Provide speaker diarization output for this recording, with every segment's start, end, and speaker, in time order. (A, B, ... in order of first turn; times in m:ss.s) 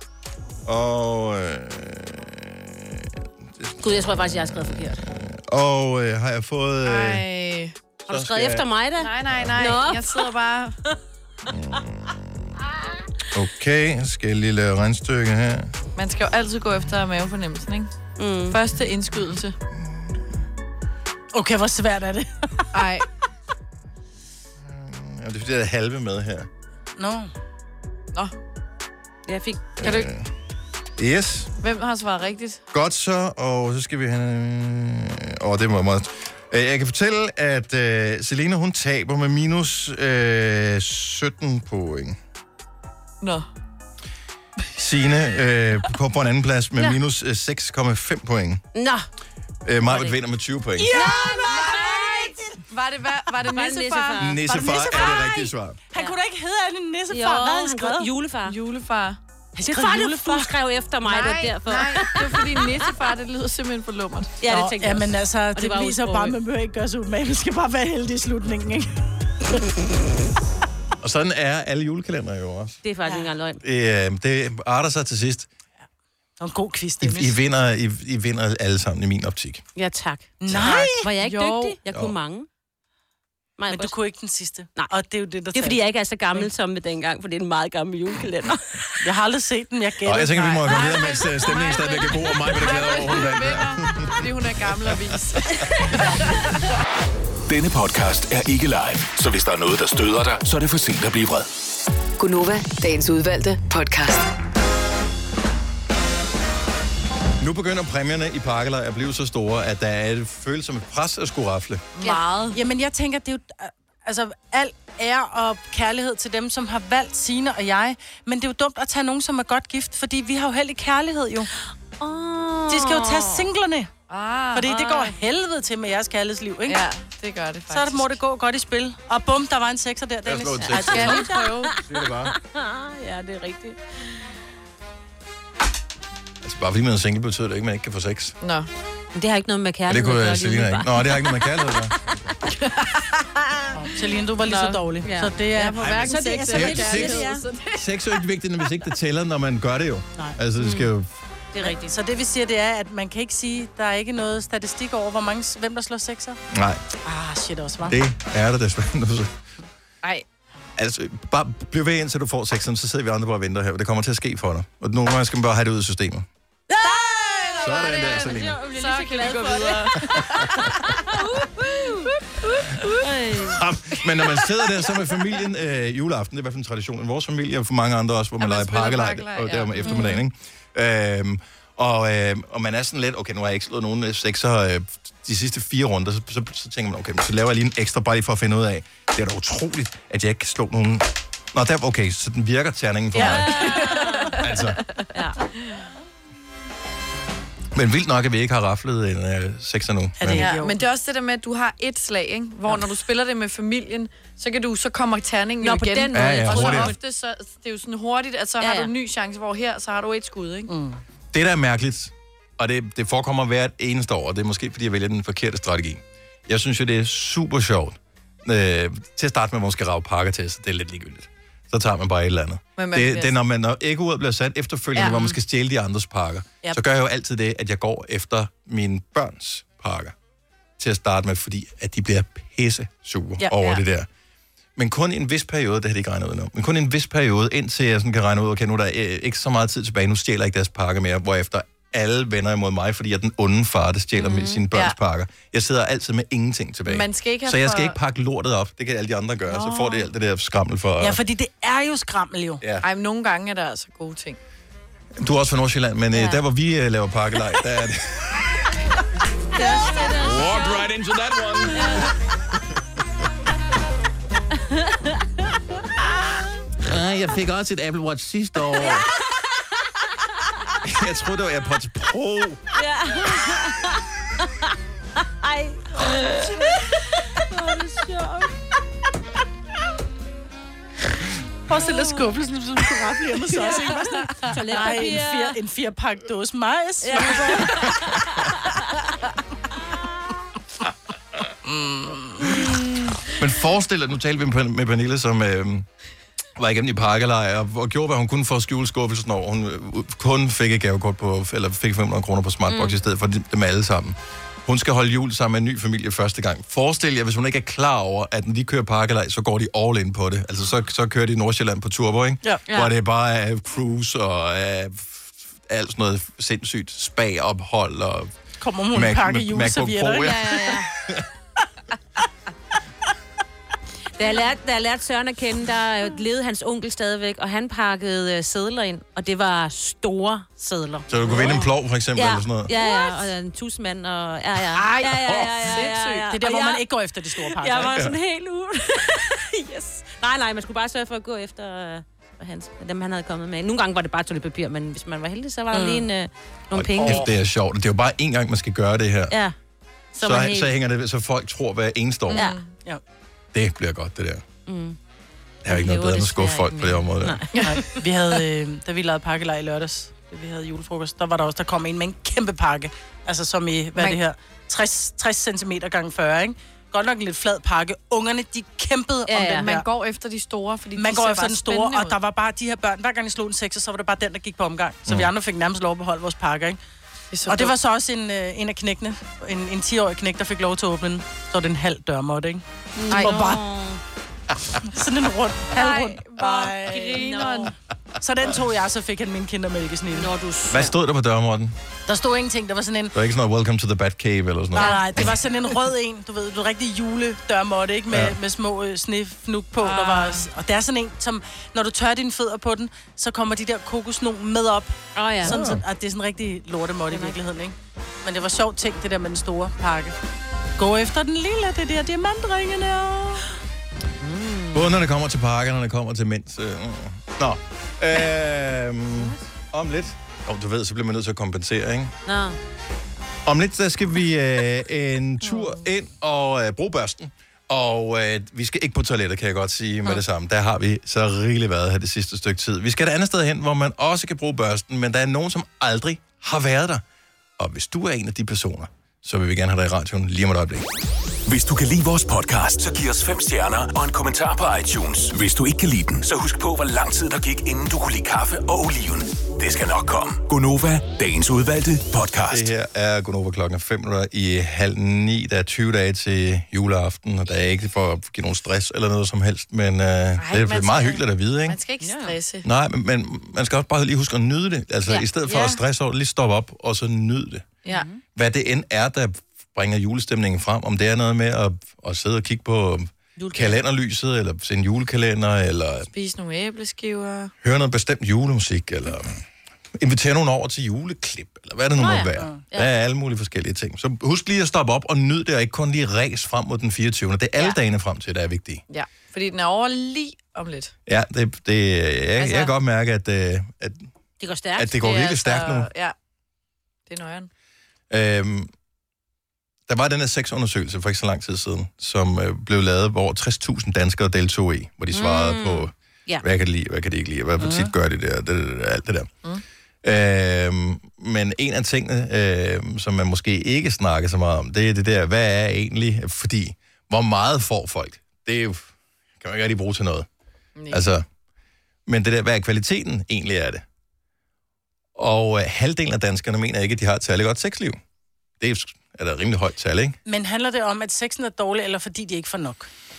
0:00.6-0:07.2 A
0:03.8-0:05.0 B
0:06.8-0:07.7 C
0:08.0-0:08.7 A
0:08.1-0:10.3 B
0:09.0-0:10.8 C
0:09.3-0:09.9 A
0:11.5-0:12.3 A
0:13.3-0:15.7 A
0:16.0-0:17.9 C
0:18.2-0:18.6 B
0:18.5-0:19.6 C
0:21.3-0:22.8 D
0:22.7-0:23.1 C
0:24.6-0:26.5 A
0:27.0-0:27.3 D
0:29.3-0:29.7 B
0:29.8-0:30.3 A
0:29.8-0:30.1 C
0:31.0-0:31.5 A
0:31.6-0:32.6 C
0:32.7-0:42.2 A
0:44.8-0:48.6 A
0:48.8-0:49.1 B
0:49.6-0:50.9 A
0:49.9-0:50.1 B
0:50.8-0:52.4 D
0:50.9-0:52.4 B
0:51.5-0:54.7 C
0:53.4-0:54.9 B
0:54.2-0:55.8 A
0:54.6-0:58.1 D
0:57.1-0:58.6 B
0:58.5-0:59.2 C
0:59.6-1:00.5 D
0:59.7-1:02.8 B
1:01.0-1:04.3 C
1:04.4-1:06.4 B
1:04.5-1:09.0 D
1:11.0-1:12.8 A
1:12.8-1:13.6 B
1:13.0-1:13.3 D
1:13.6-1:15.5 A
1:16.4-1:17.4 D
1:17.0-1:19.6 A
1:19.8-1:22.5 B
1:20.4-1:21.1 D
1:20.5-1:20.9 A
1:21.2-1:21.8 C
1:23.6-1:24.0 B
1:23.7-1:25.8 D
1:25.5-1:29.0 B
1:29.0-1:30.7 D
1:30.0-1:34.2 A
1:30.4-1:36.4 C
1:37.5-1:41.5 E
1:42.2-1:44.3 F
1:47.4-1:51.9 A
1:52.0-1:52.6 C
1:52.5-2:01.5 D
2:02.0-2:03.5 B
2:02.7-2:03.9 D
2:04.1-2:05.1 C
2:04.5-2:06.8 D
2:06.7-2:08.2 C
2:07.7-2:11.5 D
2:10.2-2:11.2 A
2:10.6-2:13.8 B
2:10.8-2:11.7 C
2:11.8-2:12.4 A
2:16.4-2:18.4 A
2:18.4-2:18.7 C
2:19.1-2:21.5 B
2:19.9-2:22.0 A
2:22.5-2:23.2 C
2:23.7-2:27.3 D
2:24.4-2:25.3 B
2:25.5-2:27.9 C
2:26.5-2:27.4 B
2:26.5-2:31.1 A
2:30.6-2:30.9 B
2:31.5-2:32.0 B
2:31.6-2:36.4 D
2:36.5-2:36.8 A
2:37.0-2:38.0 D
2:37.9-2:39.3 A
2:40.8-2:46.3 A
2:46.7-2:53.6 B
2:46.8-2:53.0 C
2:47.6-2:48.6 A
2:50.1-2:50.7 A
2:53.4-3:13.8 A
2:54.0-2:54.6 C
2:58.4-3:00.0 C
2:59.8-3:00.2 B
3:13.2-3:13.4 D
3:13.2-3:14.5 B
3:13.5-3:15.1 C
3:14.4-3:14.8 A
3:15.1-3:15.4 B
3:17.7-3:20.5 A
3:20.2-3:20.8 D
3:20.4-3:30.7 C
3:25.6-3:27.0 B
3:26.1-3:27.0 A
3:28.6-3:28.9 B
3:30.7-3:31.0 D
3:31.3-3:50.2 A
3:42.8-3:43.4 C
3:45.0-3:45.3 C
3:50.8-3:54.1 A
3:53.5-3:53.8 C
3:54.8-4:11.2 A
4:04.2-4:04.6 B
4:06.9-4:08.0 C
4:09.5-4:10.1 C
4:11.0-4:12.6 D
4:12.6-4:12.9 A
4:12.8-4:14.4 C
4:15.2-4:18.8 A
4:19.5-4:20.9 B
4:20.0-4:22.1 A
4:21.7-4:22.1 B
4:24.7-4:25.2 B
4:26.8-4:29.1 A
4:28.7-4:29.7 B
4:30.8-4:32.7 A
4:32.7-4:38.5 B
4:41.7-4:47.9 D
4:41.8-4:42.3 B
4:43.6-4:45.6 B
4:47.0-4:49.0 B
4:51.7-4:52.5 D
4:52.4-4:53.2 B
4:53.3-4:55.9 A
4:56.6-5:18.4 A
5:02.7-5:03.0 B
5:18.6-5:20.8 D
5:18.9-5:21.3 A
5:20.2-5:20.9 B
5:24.2-5:36.8 B
5:31.1-5:32.7 A
5:34.7-5:38.0 D
5:35.6-5:36.3 C
5:37.4-5:47.2 B
5:37.8-5:38.2 A
5:45.7-5:46.1 D
5:46.7-5:49.4 A
5:49.3-5:49.6 B
5:50.2-5:50.7 B
5:50.2-5:52.5 A
5:52.3-5:52.7 C
5:52.3-5:52.6 B
5:53.5-5:54.4 A
5:54.7-5:55.0 B
5:55.6-5:57.4 A
5:55.7-5:57.6 B
5:57.5-5:57.9 C
5:57.6-6:09.9 D
6:09.3-6:09.7 B
6:09.5-6:12.2 C
6:11.0-6:16.8 D
6:15.1-6:15.3 A
6:17.3-6:17.7 C
6:17.5-6:23.6 D
6:23.0-6:24.0 B
6:23.1-6:23.4 C
6:24.9-6:27.6 D
6:25.7-6:27.7 C
6:26.9-6:27.7 B
6:28.2-6:30.3 D
6:30.1-6:31.0 B
6:30.7-6:31.8 A
6:32.1-6:33.2 D
6:33.1-6:35.4 A
6:34.8-6:50.2 D
6:38.1-6:38.4 A
6:39.8-6:40.4 C
6:45.2-6:45.6 B
6:45.4-6:45.8 A
6:50.8-6:53.5 D
6:54.2-6:55.0 B
6:54.7-7:02.2 A
6:59.1-6:59.4 B
7:02.3-7:02.6 B
7:03.5-7:17.0 A
7:05.5-7:05.8 C
7:17.6-7:20.9 A
7:21.5-7:32.7 E
7:32.5-7:41.8 A
7:40.4-7:42.7 C
7:42.0-7:42.4 B
7:42.6-7:47.7 A
7:45.5-7:45.8 C
7:47.9-7:48.2 B
7:48.4-7:56.1 A
7:53.4-7:53.7 B
7:56.1-7:57.5 C
7:57.6-7:59.4 A
8:00.0-8:08.8 A
8:02.0-8:02.9 B
8:08.9-8:10.9 C
8:11.1-8:14.1 A
8:12.4-8:12.7 C
8:14.4-8:15.2 B
8:14.8-8:15.9 A
8:15.0-8:16.2 C
8:17.1-8:17.5 C
8:18.1-8:18.7 A
8:19.9-8:29.3 A
8:25.1-8:26.4 B
8:27.6-8:27.9 D
8:30.0-8:40.3 A
8:40.8-8:41.1 C
8:40.9-8:41.2 A
8:42.1-8:43.8 A
8:45.2-8:48.0 A
8:48.6-8:50.2 A
8:50.3-8:52.9 D